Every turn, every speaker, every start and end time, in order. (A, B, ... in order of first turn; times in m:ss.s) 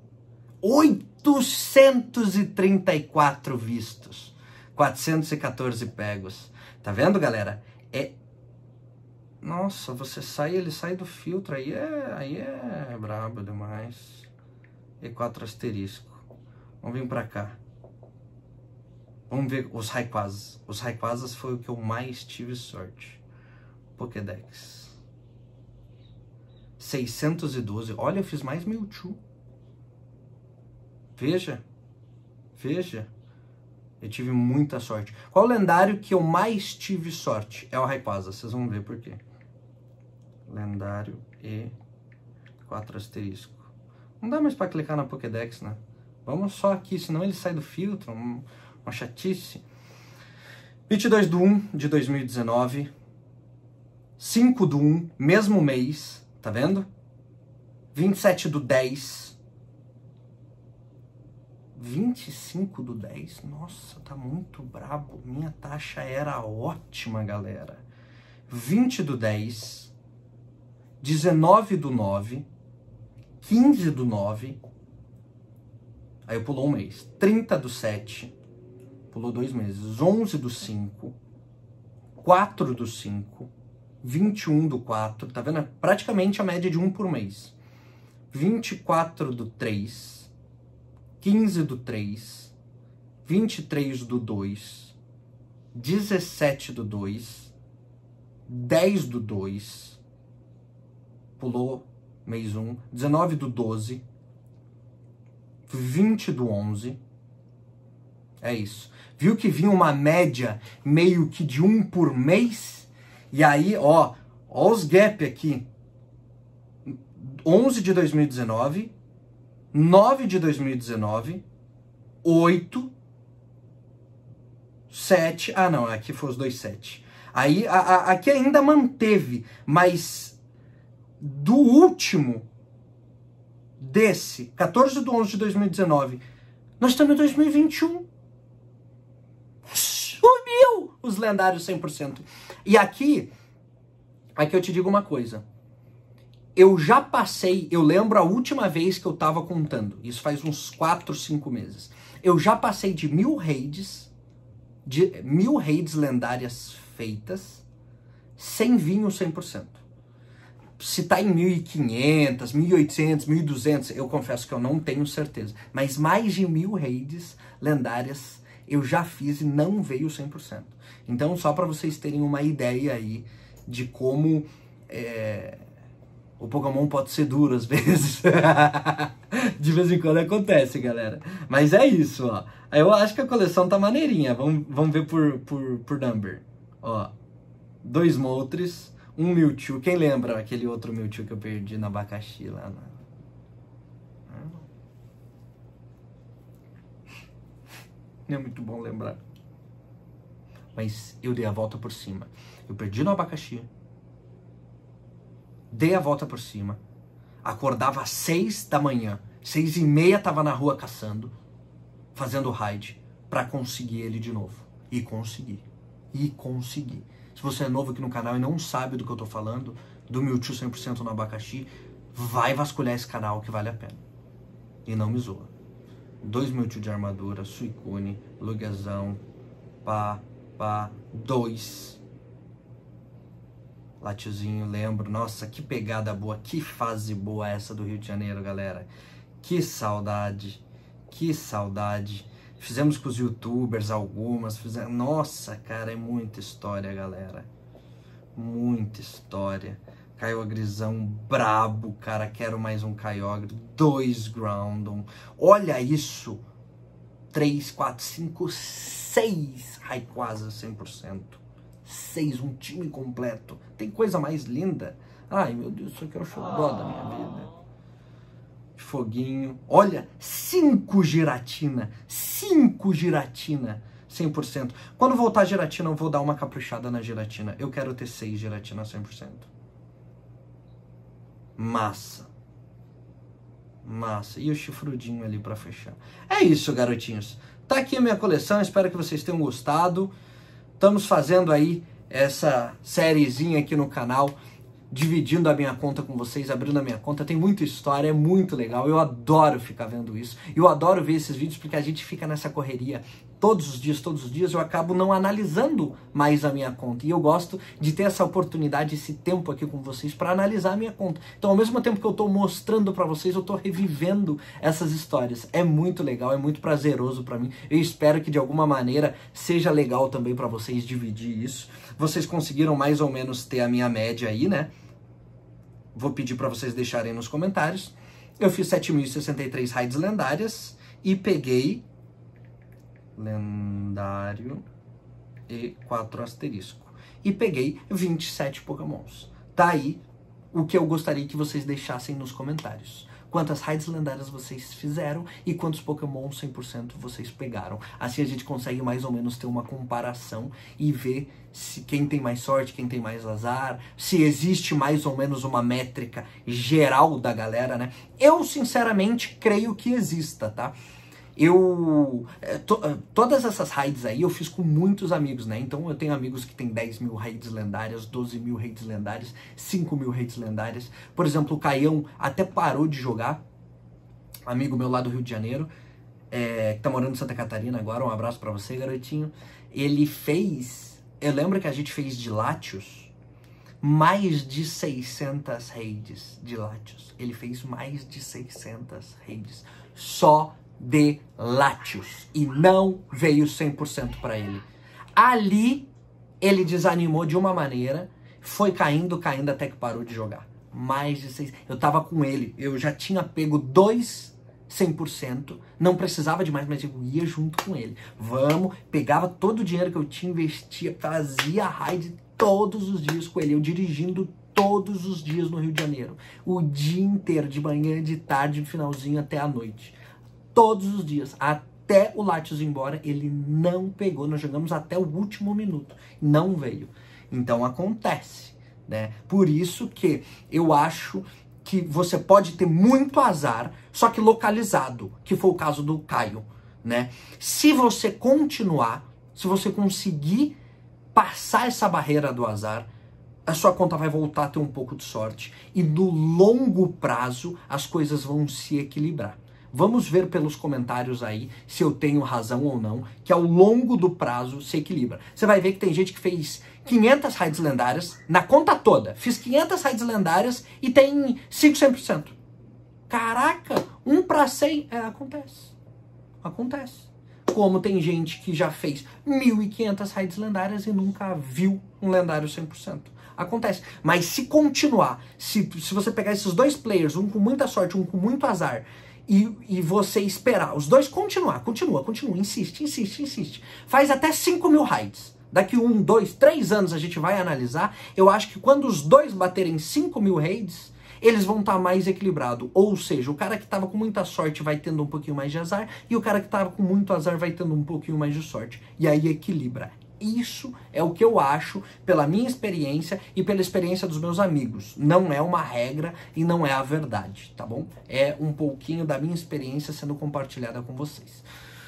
0:00.6-0:08.2 A
0:09.4-0:14.3 A
0:15.0-0:16.2 A
0:16.8-0:17.6 A
0:19.3-0:23.2 A
0:24.0-0:25.0 A
0:26.8-0:29.2 A
0:31.2-0:31.6 A
0:32.5-0:33.1 A
0:34.0-0:39.2 A
0:40.5-0:41.7 A
0:42.6-0:49.6 A
0:50.9-0:52.9 A
0:54.2-0:56.9 A
0:57.9-0:59.4 A
1:01.7-1:07.8 A
1:08.5-1:09.9 A
1:11.0-1:12.5 A
1:13.4-1:14.6 A
1:16.2-1:18.3 A
1:19.1-1:21.1 A
1:22.2-1:23.5 A
1:24.0-1:27.6 A
1:28.3-1:30.3 A
1:31.2-1:32.5 A
1:33.2-1:35.0 A
1:35.7-1:37.5 A
1:38.5-1:40.0 A
1:41.4-1:44.0 A
1:45.7-1:47.0 A
1:48.4-1:55.7 A
1:56.9-1:58.9 A
1:59.7-2:01.4 A
2:02.2-2:02.9 A
2:04.9-2:10.4 A
2:11.2-2:12.4 A
2:13.8-2:16.2 A
2:16.8-2:18.0 A
2:19.7-2:23.3 A
2:24.4-2:25.4 A
2:26.6-2:34.1 A
2:34.8-2:37.6 A
2:38.4-2:39.8 A
2:40.8-2:55.6 A
2:56.4-3:07.1 A
3:07.8-3:13.0 A
3:14.3-3:14.7 A
3:18.3-3:19.2 A
3:20.7-3:23.7 A
3:25.7-3:26.8 A
3:27.4-3:31.3 A
3:32.1-3:44.0 A
3:44.8-3:45.5 A
3:46.2-3:49.2 A
3:49.8-3:52.0 A
3:54.0-3:58.9 A
3:59.4-4:07.5 A
4:08.3-4:16.4 A
4:17.3-4:27.5 A
4:28.8-4:39.5 A
4:41.6-4:42.3 A
4:43.8-4:50.1 A
4:50.8-4:54.4 A
4:54.9-5:24.7 A
5:25.9-5:31.8 A
5:33.2-5:34.6 A
5:35.5-5:40.0 A
5:40.5-6:00.7 A
6:01.4-6:13.4 A
6:14.5-6:15.7 A
6:16.3-6:23.1 A
6:23.8-6:35.9 A
6:36.4-7:00.0 A
7:00.5-7:20.6 A
7:21.1-7:22.9 A
7:23.4-7:42.4 A
7:43.1-7:45.7 A
7:46.4-8:31.4 A